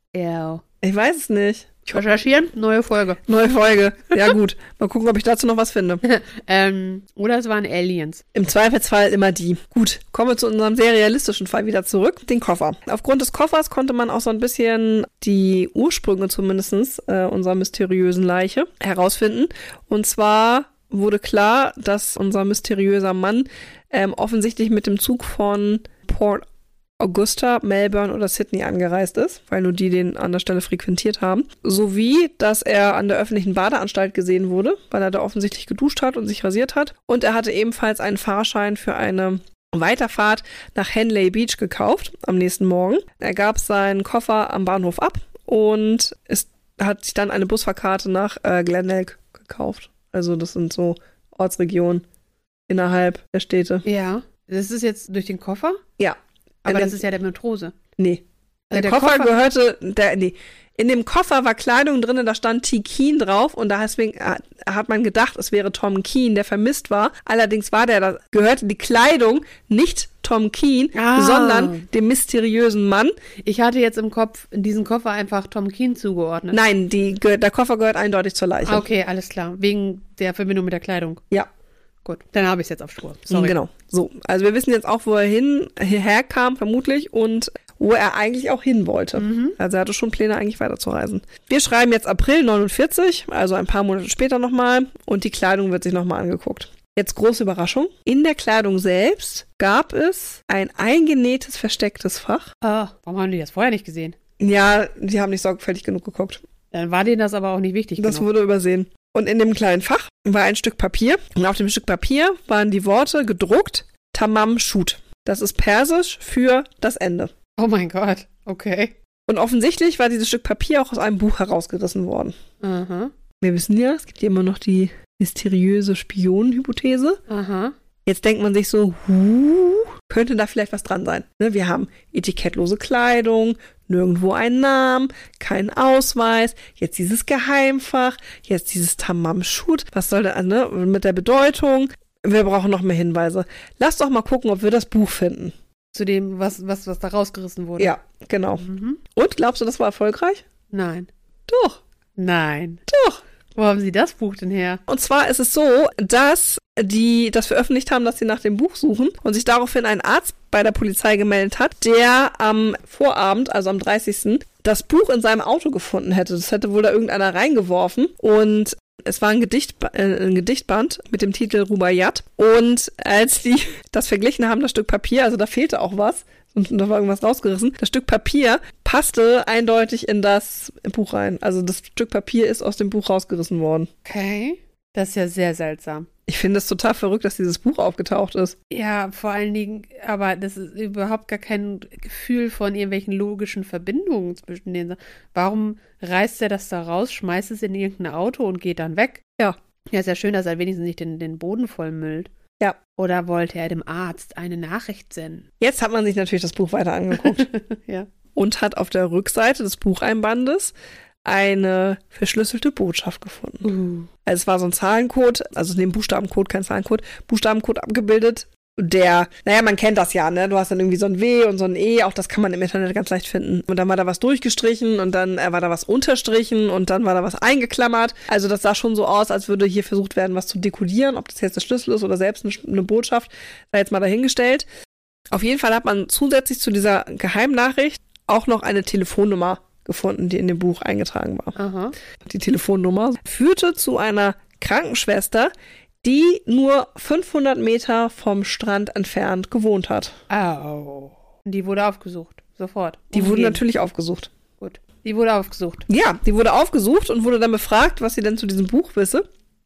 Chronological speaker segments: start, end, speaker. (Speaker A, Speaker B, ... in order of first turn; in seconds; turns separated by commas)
Speaker A: 0.1-0.6, Speaker B: 0.8-2.0, Speaker A: 1.9-3.2, Speaker B: 3.3-6.0, Speaker A: 6.0-8.2, Speaker B: 8.3-26.4, Speaker B: 27.0-52.0, Speaker B: 52.7-53.8, Speaker A: 53.8-55.8, Speaker B: 56.0-57.0, Speaker A: 56.6-57.7, Speaker B: 58.0-73.1, Speaker A: 58.7-59.4, Speaker A: 70.9-71.8, Speaker A: 73.4-76.6, Speaker B: 76.5-78.8, Speaker A: 78.6-81.2, Speaker A: 82.0-83.6, Speaker B: 83.3-102.5, Speaker A: 89.2-89.6, Speaker A: 102.6-104.2, Speaker B: 104.4-106.4, Speaker A: 106.7-108.3, Speaker B: 108.0-117.3, Speaker A: 117.6-118.9, Speaker B: 119.3-122.3, Speaker A: 122.6-123.1, Speaker B: 123.4-127.2, Speaker A: 127.3-127.7, Speaker B: 128.1-145.5, Speaker A: 145.9-147.9, Speaker B: 147.8-150.4, Speaker A: 148.6-149.0, Speaker A: 150.7-151.1, Speaker B: 151.5-151.8, Speaker A: 152.2-152.8, Speaker B: 152.9-153.2, Speaker A: 153.5-154.8, Speaker B: 154.9-183.9, Speaker A: 184.0-186.1, Speaker B: 186.3-188.6, Speaker A: 188.7-199.2, Speaker A: 199.9-202.3, Speaker A: 202.9-205.4, Speaker B: 205.6-207.5, Speaker A: 207.1-208.1, Speaker B: 208.3-210.7, Speaker B: 211.2-213.7, Speaker A: 213.6-214.1, Speaker B: 214.2-234.7, Speaker B: 235.3-241.6, Speaker A: 241.6-241.9, Speaker B: 242.2-245.5, Speaker B: 246.0-250.2, Speaker A: 250.3-253.6, Speaker B: 253.1-254.3, Speaker A: 254.6-255.9, Speaker B: 255.9-259.2